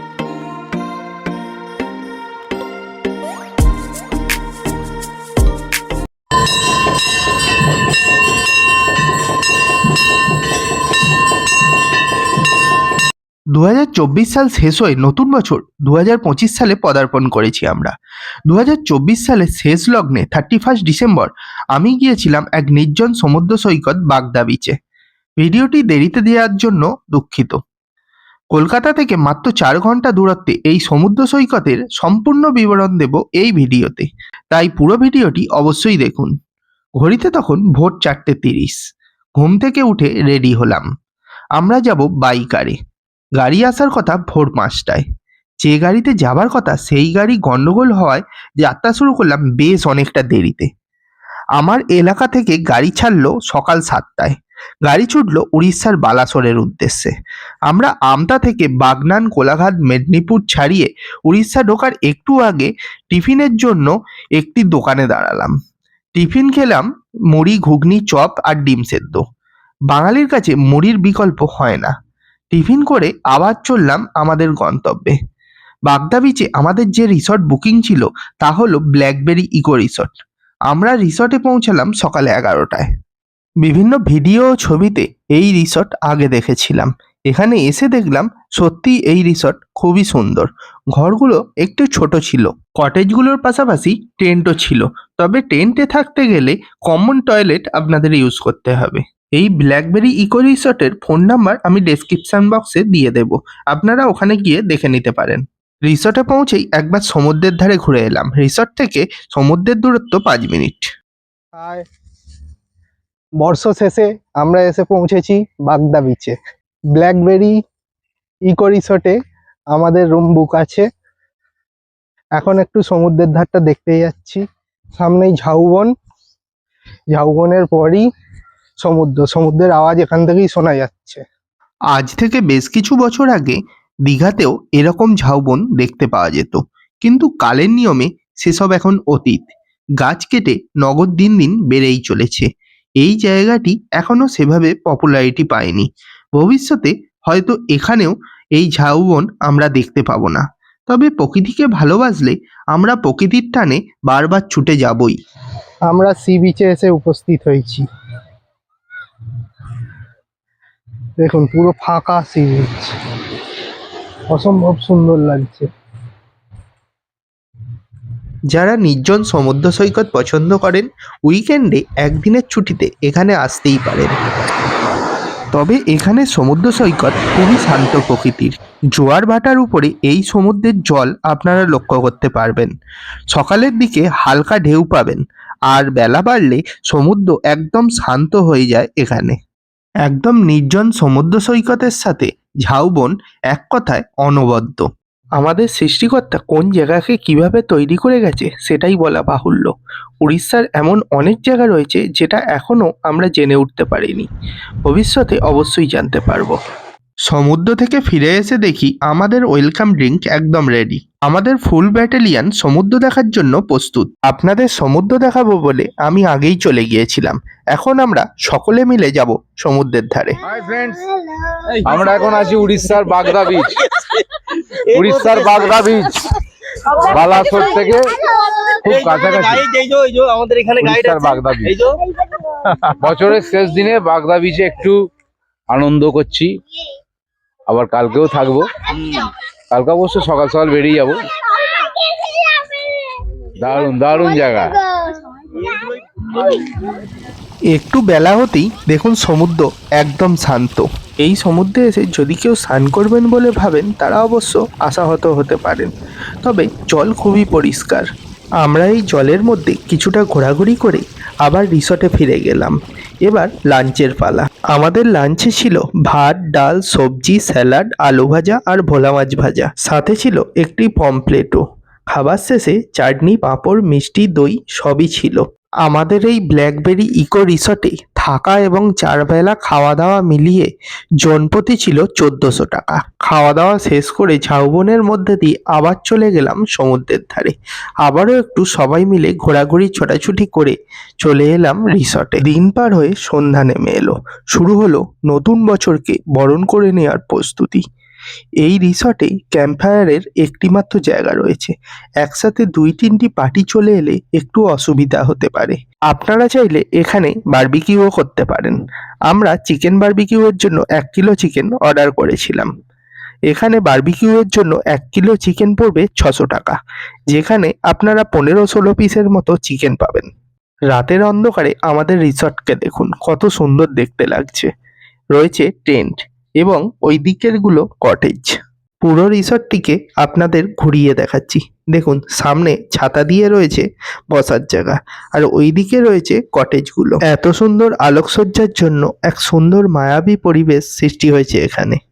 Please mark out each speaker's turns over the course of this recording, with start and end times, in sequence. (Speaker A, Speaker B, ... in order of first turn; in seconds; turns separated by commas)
Speaker A: 13.5-17.9, Speaker A: 18.5-24.8, Speaker A: 25.4-27.6, Speaker A: 28.5-36.3, Speaker A: 37.0-38.8, Speaker A: 39.4-40.9, Speaker A: 41.6-42.8, Speaker A: 43.4-45.0, Speaker A: 45.6-50.7, Speaker A: 51.6-54.3, Speaker A: 54.9-57.1, Speaker A: 57.7-65.5, Speaker A: 66.2-69.2, Speaker A: 69.9-71.9, Speaker A: 72.5-75.2, Speaker A: 75.9-80.1, Speaker A: 80.7-82.9, Speaker A: 83.6-110.9, Speaker B: 111.5-111.8, Speaker B: 113.4-116.3, Speaker B: 116.9-117.5, Speaker B: 118.5-119.2, Speaker B: 119.7-120.8, Speaker B: 122.4-124.4, Speaker B: 125.0-125.9, Speaker B: 127.1-128.1, Speaker B: 128.8-131.2, Speaker A: 131.9-142.5, Speaker A: 143.0-155.2, Speaker B: 155.9-157.8, Speaker B: 161.2-162.9, Speaker B: 164.3-165.7, Speaker A: 168.5-174.2, Speaker A: 175.5-182.7, Speaker A: 183.3-189.4, Speaker A: 190.1-204.3, Speaker A: 204.8-206.6, Speaker A: 207.3-220.4, Speaker C: 220.5-221.2, Speaker D: 221.7-222.1, Speaker C: 221.8-223.8, Speaker C: 224.9-226.2, Speaker D: 225.0-225.7, Speaker D: 226.8-227.3, Speaker C: 227.0-229.7, Speaker D: 228.8-232.0, Speaker C: 230.8-231.8, Speaker C: 232.8-235.1, Speaker C: 235.7-236.6, Speaker C: 237.7-241.3, Speaker C: 243.6-244.9, Speaker D: 245.6-246.6, Speaker A: 247.7-255.9, Speaker A: 256.4-258.1, Speaker A: 258.6-297.8, Speaker A: 298.6-312.7, Speaker A: 313.5-316.8, Speaker A: 317.3-320.3, Speaker A: 320.9-324.7, Speaker A: 325.4-342.0